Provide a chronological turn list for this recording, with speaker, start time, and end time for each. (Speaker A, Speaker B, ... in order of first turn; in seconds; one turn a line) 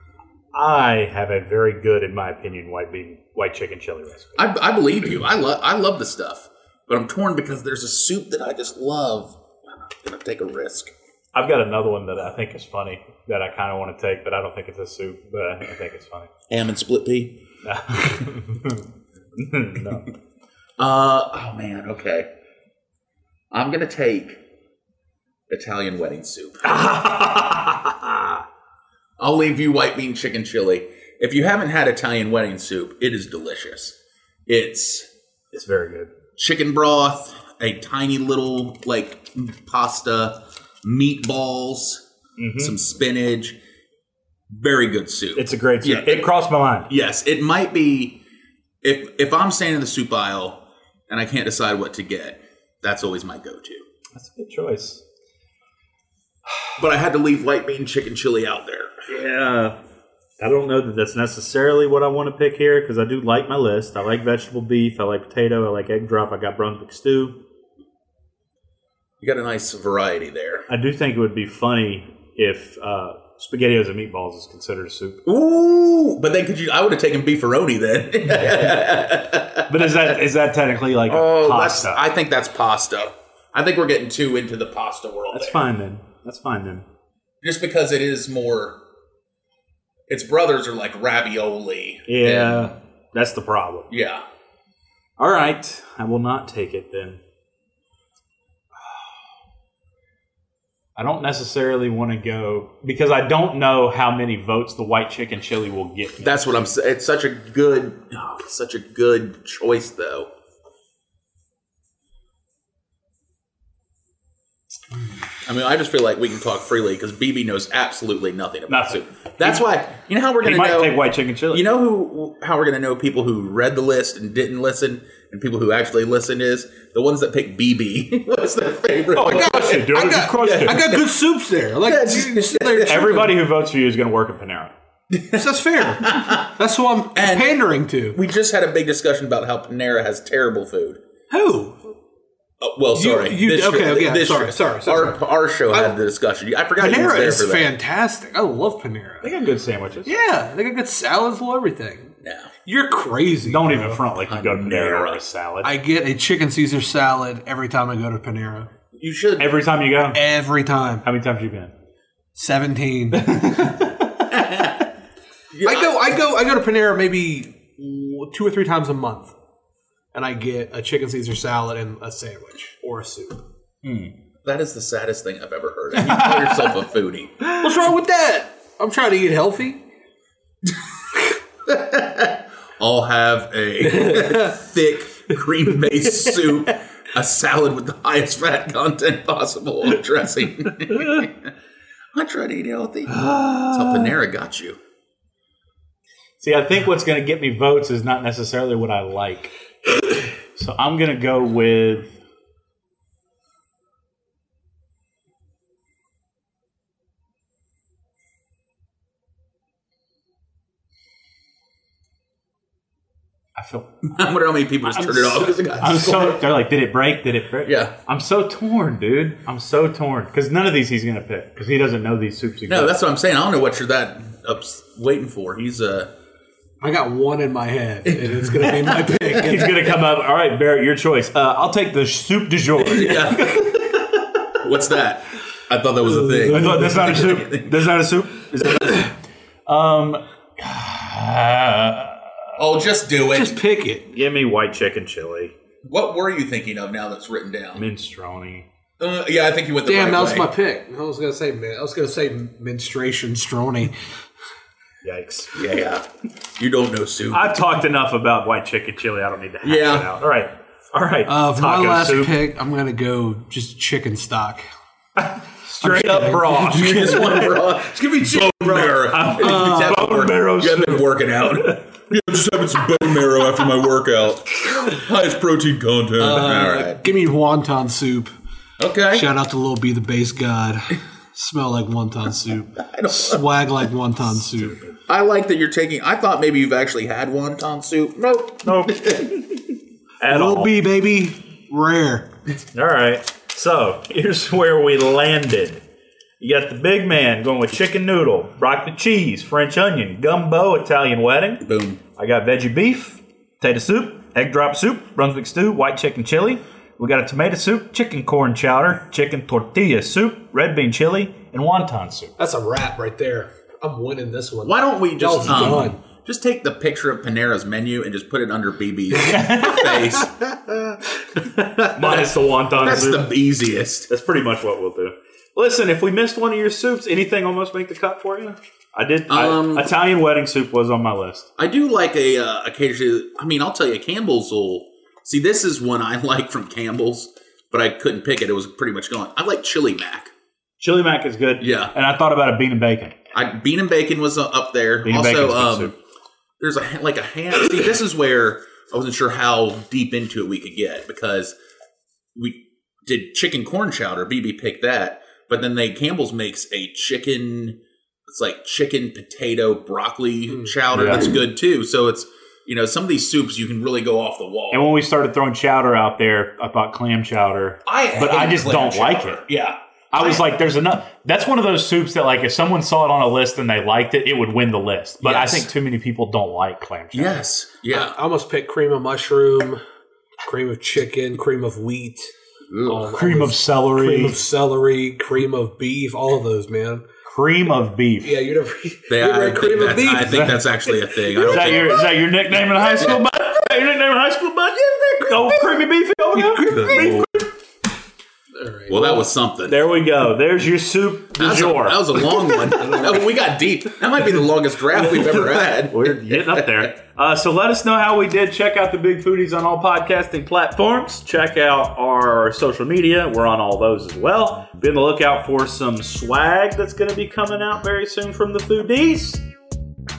Speaker A: 0.5-4.4
Speaker B: 4.4-10.9
Speaker A: 11.3-16.3
Speaker B: 16.5-17.4
Speaker A: 17.6-18.8
Speaker A: 19.4-20.1
Speaker B: 20.8-22.3
Speaker B: 23.5-24.4
Speaker B: 25.5-26.7
Speaker A: 26.6-28.4
Speaker B: 29.2-34.0
Speaker B: 34.5-35.1
Speaker A: 35.5-36.1
Speaker B: 36.4-42.0
Speaker A: 42.4-42.8
Speaker B: 42.6-43.6
Speaker B: 44.5-46.3
Speaker A: 45.4-46.9
Speaker B: 46.9-48.2
Speaker B: 48.8-53.8
Speaker A: 54.1-55.0
Speaker B: 56.8-58.9
Speaker A: 59.1-59.7
Speaker A: 60.4-67.4
Speaker B: 69.2-70.7
Speaker A: 70.7-75.2
Speaker B: 75.2-80.1
Speaker A: 78.4-78.7
Speaker A: 79.7-82.0
Speaker B: 81.1-85.6
Speaker A: 85.3-86.8
Speaker B: 87.4-88.8
Speaker B: 90.1-92.7
Speaker A: 92.1-93.9
Speaker B: 93.9-94.2
Speaker A: 95.2-97.2
Speaker A: 101.0-106.4
Speaker B: 106.2-110.3
Speaker B: 115.4-121.0
Speaker A: 118.7-119.5
Speaker A: 120.4-121.6
Speaker B: 121.5-129.9
Speaker A: 129.1-131.0
Speaker C: 129.3-133.3
Speaker B: 130.4-131.0
Speaker B: 131.8-133.2
Speaker A: 132.8-134.7
Speaker B: 135.1-136.5
Speaker C: 135.3-138.2
Speaker B: 137.1-137.6
Speaker B: 138.1-141.0
Speaker C: 141.3-141.8
Speaker B: 142.6-147.7
Speaker C: 142.9-145.9
Speaker C: 146.8-149.3
Speaker A: 149.2-150.1
Speaker C: 150.0-152.1
Speaker B: 152.2-152.5
Speaker C: 152.6-154.0
Speaker A: 153.4-155.7
Speaker B: 154.2-155.2
Speaker C: 155.6-158.7
Speaker B: 158.9-159.5
Speaker A: 159.4-160.2
Speaker C: 160.1-161.0
Speaker A: 161.0-161.7
Speaker C: 162.3-163.4
Speaker A: 163.1-164.3
Speaker B: 164.3-164.8
Speaker B: 165.5-166.0
Speaker C: 165.6-169.3
Speaker C: 170.1-173.4
Speaker A: 173.8-174.1
Speaker B: 174.4-177.4
Speaker A: 175.9-176.7
Speaker C: 177.6-179.8
Speaker B: 181.7-191.5
Speaker C: 183.9-184.5
Speaker B: 192.1-194.8
Speaker A: 193.1-194.1
Speaker A: 196.4-199.5
Speaker A: 200.5-202.1
Speaker A: 213.6-213.9
Speaker B: 214.0-216.4
Speaker A: 214.8-222.9
Speaker B: 217.6-217.9
Speaker B: 222.7-226.1
Speaker C: 226.8-229.9
Speaker B: 228.1-229.4
Speaker A: 229.3-234.2
Speaker B: 232.8-233.7
Speaker B: 234.6-237.7
Speaker C: 236.1-237.2
Speaker A: 236.5-239.1
Speaker A: 239.7-242.3
Speaker B: 242.6-243.6
Speaker C: 243.3-244.1
Speaker A: 244.1-245.5
Speaker B: 245.8-247.8
Speaker A: 247.7-248.7
Speaker B: 249.0-250.5
Speaker C: 249.8-253.9
Speaker A: 255.0-255.5
Speaker B: 255.5-256.0
Speaker B: 256.6-257.5
Speaker A: 257.3-262.4
Speaker B: 259.6-260.1
Speaker C: 261.3-264.6
Speaker A: 265.2-267.6
Speaker C: 265.8-267.3
Speaker B: 266.6-277.0
Speaker C: 268.3-269.9
Speaker A: 268.3-271.8
Speaker C: 276.2-278.3
Speaker B: 278.8-279.3
Speaker C: 279.1-284.8
Speaker B: 282.8-283.4
Speaker B: 285.1-289.3
Speaker A: 288.6-289.6
Speaker A: 290.2-290.7
Speaker C: 290.3-292.3
Speaker A: 292.7-295.8
Speaker A: 296.4-301.6
Speaker B: 301.6-302.0
Speaker A: 302.1-312.3
Speaker C: 312.4-316.0
Speaker B: 314.6-321.0
Speaker A: 319.2-320.0
Speaker B: 321.6-324.1
Speaker A: 321.8-323.3
Speaker A: 324.1-331.5
Speaker B: 329.3-329.9
Speaker B: 331.6-340.3
Speaker A: 340.8-343.2
Speaker B: 341.6-341.9
Speaker B: 343.3-345.9
Speaker A: 345.0-345.9
Speaker B: 346.6-351.5
Speaker B: 352.3-364.9
Speaker A: 360.9-361.3
Speaker A: 364.7-369.4
Speaker B: 367.9-370.4
Speaker A: 370.1-377.4
Speaker B: 375.2-375.7
Speaker B: 377.1-378.2
Speaker C: 377.9-379.8
Speaker C: 380.4-382.3
Speaker B: 382.7-383.1
Speaker C: 382.9-387.0
Speaker A: 383.1-384.4
Speaker A: 387.2-388.4
Speaker C: 388.2-391.9
Speaker B: 389.1-392.0
Speaker A: 390.3-390.6
Speaker A: 391.4-397.3
Speaker C: 396.3-397.3
Speaker B: 396.6-397.3
Speaker C: 398.5-399.2
Speaker B: 398.9-399.8
Speaker A: 399.7-402.2
Speaker B: 401.4-406.9
Speaker C: 402.8-403.1
Speaker A: 405.9-419.4